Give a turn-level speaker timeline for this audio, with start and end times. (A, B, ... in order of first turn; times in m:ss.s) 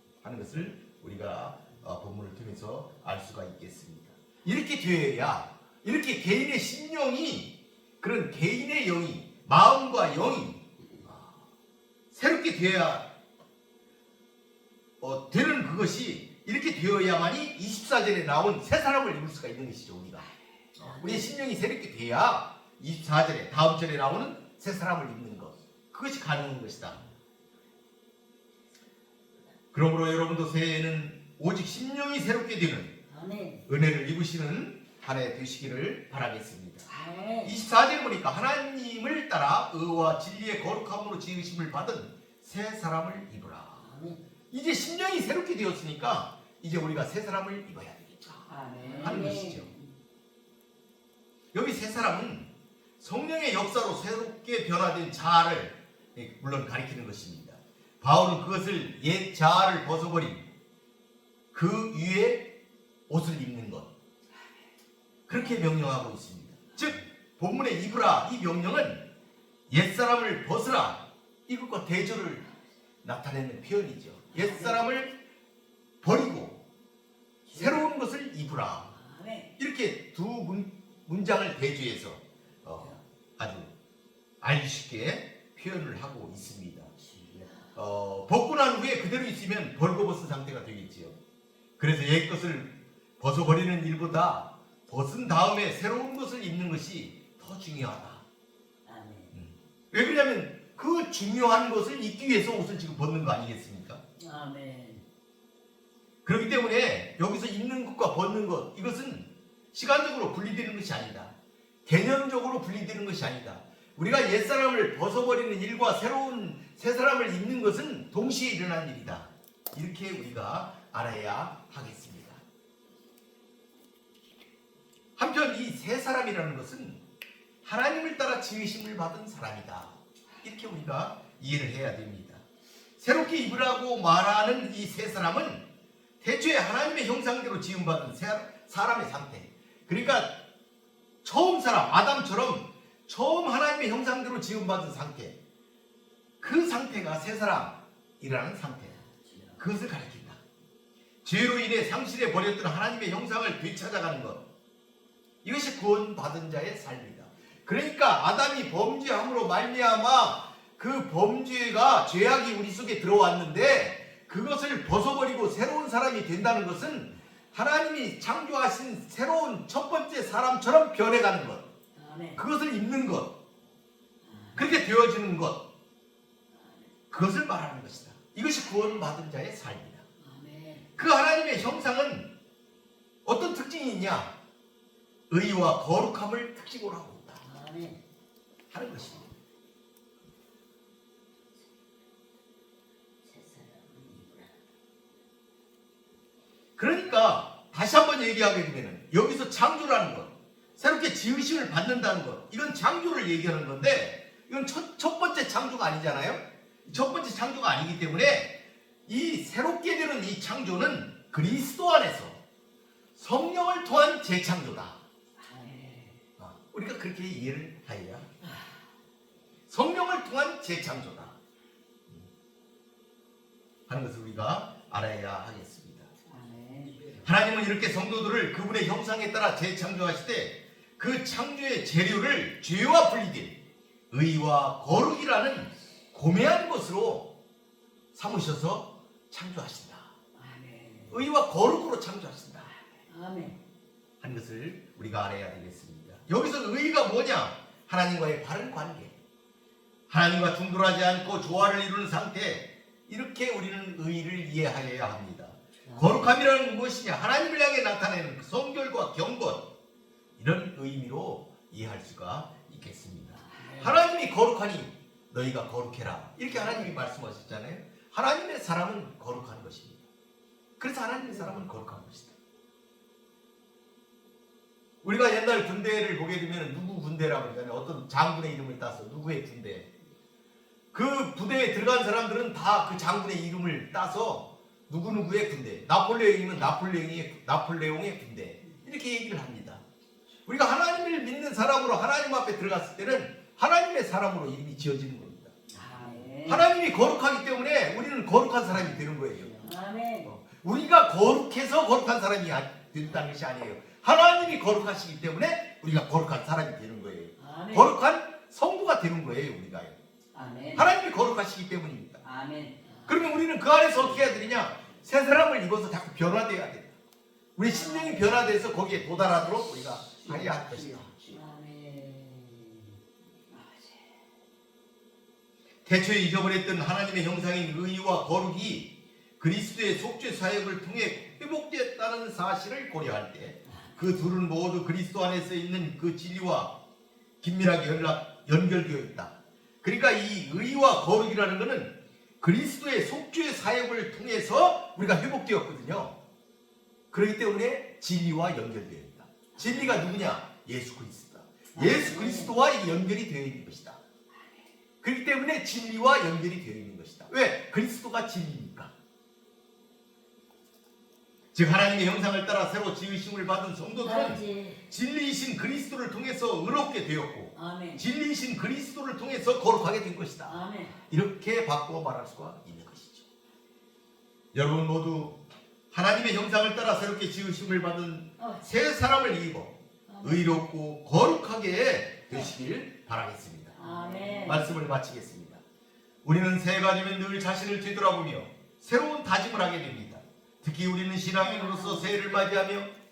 0:00.2-0:11.3 A
0:12.1-0:13.1 A
0:15.0-0:27.1 A
0:20.8-0:21.3 B
0:29.7-0:33.0 A
0:33.1-0:33.7 B
0:33.7-0:36.9 A
0:36.9-0:37.5 B
0:37.4-0:43.8 A
0:43.8-0:44.2 B
0:44.5-0:48.5 A
0:48.4-0:49.9 B
0:49.0-0:49.7 A
0:51.5-1:00.4 A
1:01.5-1:02.5 A
1:03.1-1:03.9 A
1:05.3-1:09.0 A
1:09.7-1:12.4 A
1:13.0-1:15.1 A
1:14.3-1:14.8 B
1:16.0-1:16.6 A
1:17.5-1:17.8 B
1:17.5-1:18.9 A
1:18.9-1:19.5 B
1:19.6-1:23.7 A
1:24.4-1:26.9 A
1:27.0-1:27.6 B
1:27.7-1:31.2 A
1:31.8-1:38.2 A
1:38.9-1:39.3 B
1:39.3-1:44.0 A
1:44.2-1:45.0 B
1:46.2-1:51.3 A
1:51.8-2:02.4 A
2:05.2-2:07.0 A
2:07.6-2:12.4 A
2:13.0-2:15.6 A
2:16.2-2:20.4 A
2:21.2-2:25.4 A
2:26.4-2:29.0 A
2:29.2-2:29.6 B
2:29.6-2:30.4 A
2:31.2-2:34.4 A
2:35.4-2:51.7 A
2:52.0-2:52.4 B
2:52.4-2:53.3 A
2:54.2-2:54.7 B
2:54.5-2:55.6 A
2:57.1-3:00.0 A
3:00.2-3:00.9 B
3:01.0-3:02.3 A
3:03.2-3:04.3 A
3:05.3-3:07.4 A
3:07.4-3:08.0 B
3:08.7-3:09.3 A
3:13.2-3:14.5 B
3:16.8-3:32.4 A
3:33.2-3:35.0 A
3:35.4-3:36.1 B
3:36.4-3:38.3 A
3:39.7-3:41.4 A
3:43.9-3:46.1 A
3:46.3-3:47.2 B
3:47.2-3:53.6 A
3:54.1-3:57.3 A
3:58.1-4:00.1 A
4:00.4-4:01.1 B
4:01.1-4:02.7 A
4:03.1-4:03.6 B
4:04.2-4:09.2 A
4:10.1-4:19.6 A
4:15.8-4:16.3 B
4:20.4-4:30.0 A
4:23.4-4:23.9 B
4:30.8-4:32.3 A
4:35.0-4:39.9 A
4:40.9-4:49.8 A
4:50.4-4:55.5 A
4:55.7-4:56.7 B
4:56.4-5:10.0 A
4:59.6-5:00.3 B
5:07.4-5:07.9 B
5:10.3-5:10.9 B
5:10.7-5:12.2 A
5:12.2-5:13.2 B
5:13.1-5:16.9 A
5:13.9-5:14.3 B
5:17.6-5:21.2 A
5:17.6-5:22.9 B
5:23.5-5:23.9 B
5:25.8-5:36.8 A
5:37.4-5:46.2 A
5:47.1-5:54.0 A
5:49.6-5:49.9 B
5:51.7-5:52.5 B
5:55.0-5:58.9 A
6:01.5-6:10.6 A
6:04.0-6:04.8 B
6:07.5-6:08.0 B
6:10.4-6:10.9 B
6:11.1-6:13.3 A
6:14.5-6:25.6 A
6:20.1-6:20.6 B
6:23.8-6:24.8 B
6:26.2-6:32.9 A
6:31.4-6:32.2 B